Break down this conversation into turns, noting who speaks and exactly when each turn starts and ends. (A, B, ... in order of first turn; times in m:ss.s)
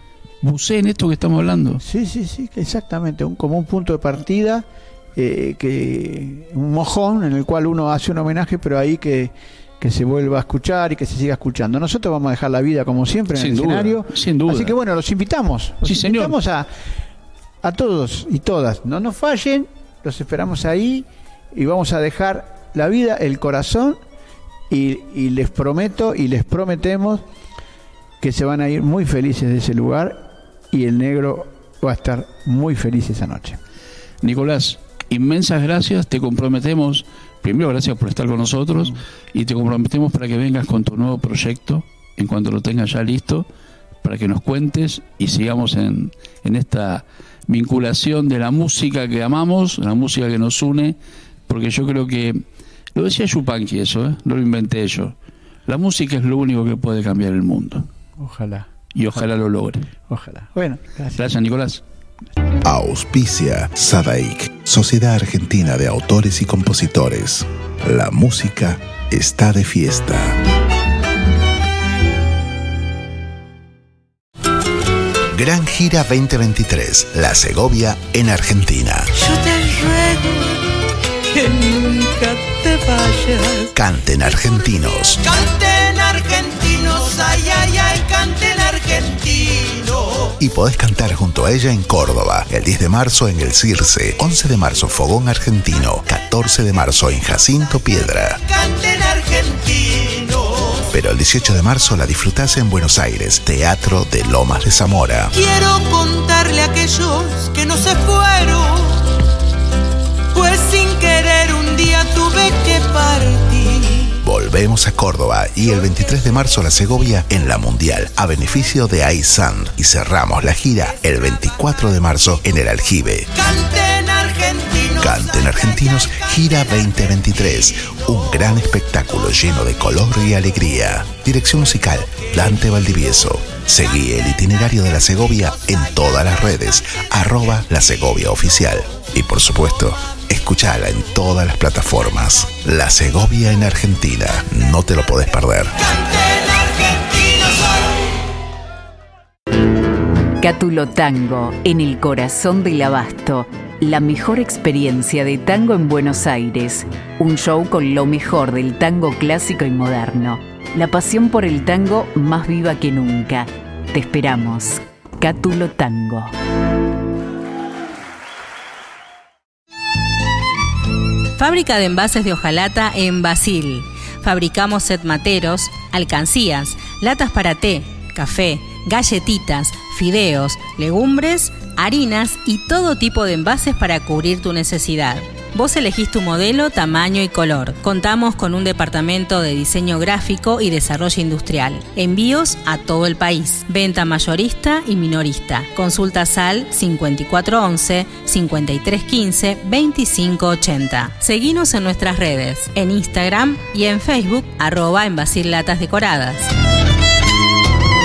0:00.4-0:01.8 A
0:01.8-0:04.6 B
0:05.2-0:16.7 B
0:13.3-0:14.8 A
0:15.8-0:16.4 A
0:17.6-0:24.0 B
0:24.7-0:27.2 B
0:28.2-0:33.6 B
0:34.2-0:43.5 A
0:44.0-0:57.9 A
0:58.2-0:59.2 B
0:58.9-0:59.9 A
1:00.1-1:01.2 B
1:01.2-1:01.8 A
1:02.6-1:10.4 C
1:15.3-1:19.1 C
1:19.2-1:20.2 D
1:21.4-1:23.1 D
1:23.8-1:25.2 C
1:25.2-1:30.3 D
1:30.4-1:38.4 C
1:38.4-1:40.9 D
1:40.9-1:45.3 C
1:45.3-1:49.0 D
1:50.3-1:54.2 D
1:54.2-2:03.3 C
2:03.4-2:06.3 D
2:05.0-2:25.8 C
2:25.9-2:27.8 D
2:30.4-2:46.3 E
2:51.4-3:26.5 F